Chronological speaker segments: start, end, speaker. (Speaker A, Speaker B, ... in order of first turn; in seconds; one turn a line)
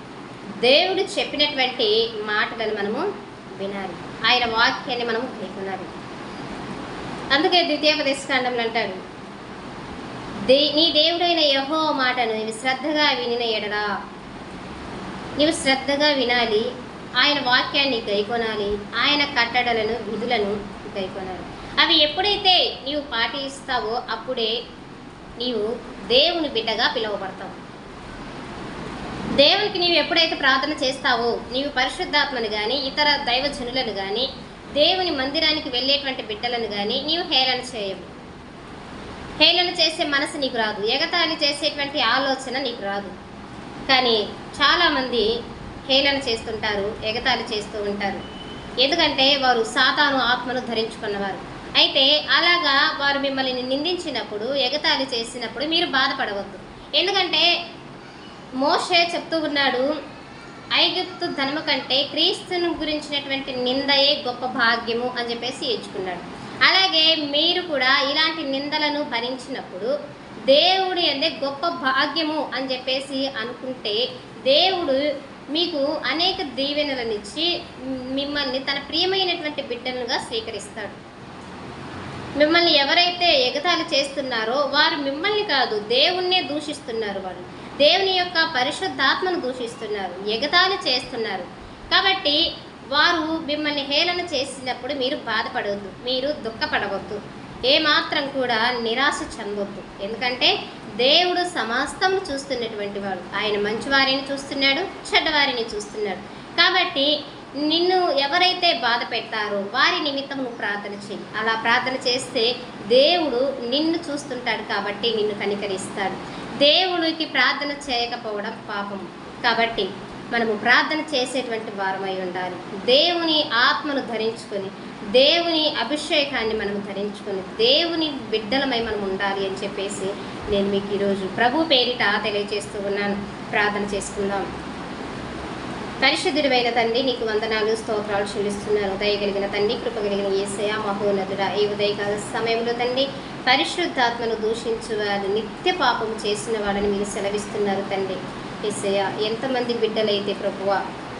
Speaker A: 0.6-5.9
Speaker A: 7.3-9.0
Speaker A: 10.5-13.9
Speaker A: 15.4-16.7
Speaker A: 17.2-24.5
Speaker A: 25.4-27.6
Speaker A: 29.4-38.1
Speaker A: 39.4-43.1
Speaker A: 43.9-45.3
Speaker A: 45.9-48.2
Speaker A: 48.8-57.5
Speaker A: 58.6-59.9
Speaker A: 60.7-69.9
Speaker A: 70.5-81.0
Speaker A: 82.4-92.4
Speaker A: 92.9-134.5
Speaker A: 136.0-150.8